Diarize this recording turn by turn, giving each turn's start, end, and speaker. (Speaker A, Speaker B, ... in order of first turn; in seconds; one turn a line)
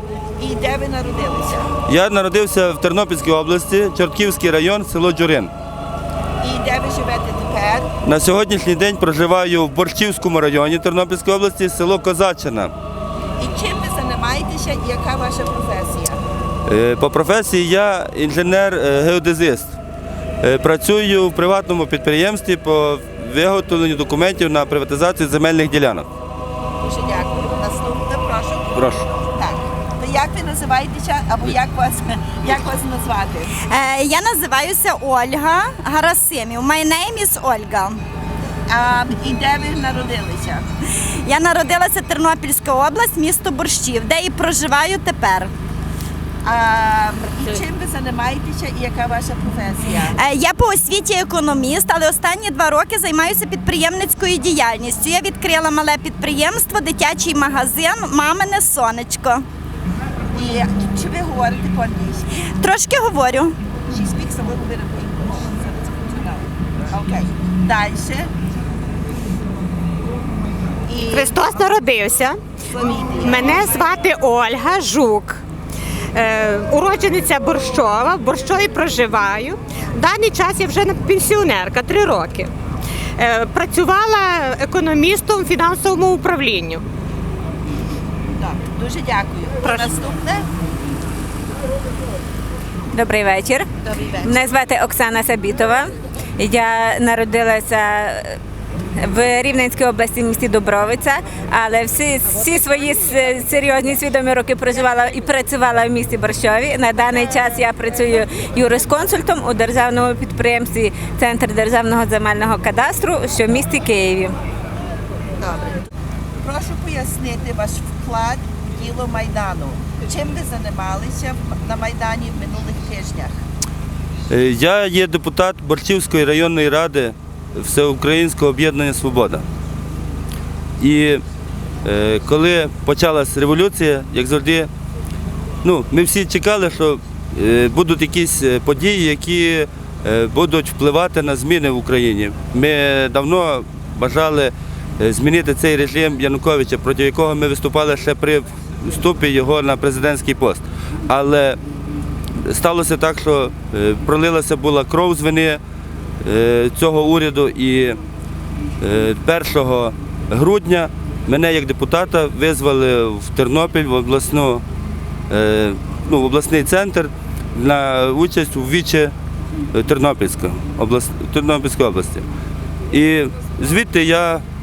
Speaker A: 0.4-1.7
Speaker B: 1.9-5.5
Speaker A: 6.4-7.9
Speaker B: 8.0-12.7
Speaker A: 13.4-16.2
Speaker B: 16.7-19.8
Speaker B: 20.4-26.1
Speaker A: 26.8-33.5
Speaker B: 28.7-29.0
Speaker C: 33.6-38.0
Speaker A: 38.7-40.7
Speaker C: 41.2-45.5
Speaker A: 46.4-50.1
Speaker C: 50.2-59.4
Speaker A: 60.3-62.3
Speaker C: 62.5-63.5
Speaker A: 63.9-68.3
Speaker A: 70.9-71.3
Speaker D: 71.0-72.4
Speaker A: 72.7-73.7
Speaker D: 73.1-75.4
Speaker D: 76.1-82.5
Speaker D: 83.2-86.8
Speaker A: 88.3-90.5
Speaker D: 89.6-90.0
Speaker E: 92.9-93.7
Speaker A: 93.8-94.4
Speaker E: 94.2-98.4
Speaker E: 99.0-114.3
Speaker A: 115.4-115.8
Speaker A: 116.4-123.4
Speaker B: 124.3-129.4
Speaker B: 130.8-131.2
Speaker B: 131.8-134.7
Speaker B: 135.6-151.6
Speaker B: 152.4-155.6
Speaker B: 156.2-158.0
Speaker B: 158.8-164.6
Speaker B: 165.3-169.1
Speaker B: 169.7-172.3
Speaker B: 172.9-174.4